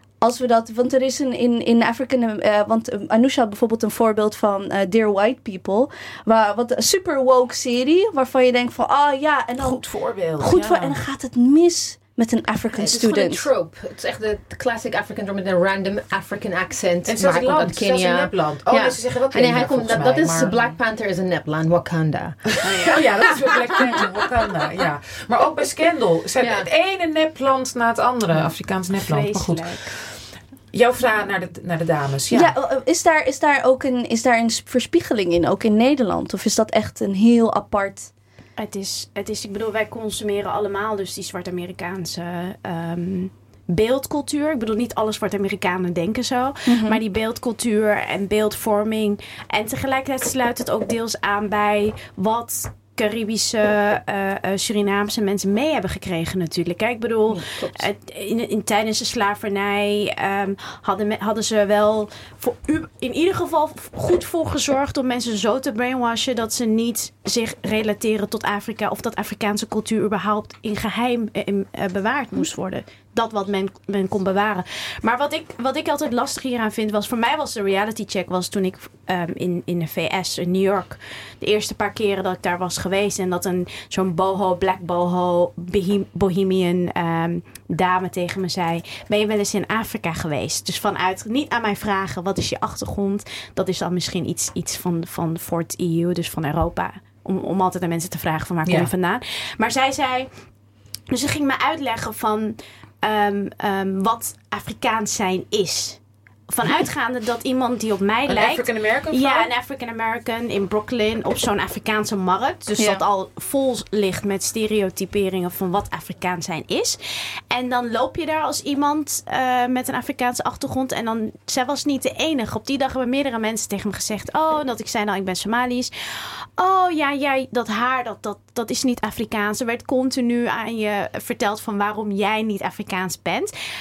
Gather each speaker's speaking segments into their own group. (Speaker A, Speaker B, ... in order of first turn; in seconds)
Speaker A: 0.2-13.5, 32.3-38.1, 46.7-47.0
Speaker B: 9.6-11.0, 17.1-20.8, 22.5-30.2, 30.7-32.5, 98.6-98.9, 108.3-109.5
Speaker C: 12.7-24.0, 26.4-26.7, 57.3-57.9
Speaker D: 28.9-29.9, 38.6-100.3, 101.1-117.0, 117.5-133.5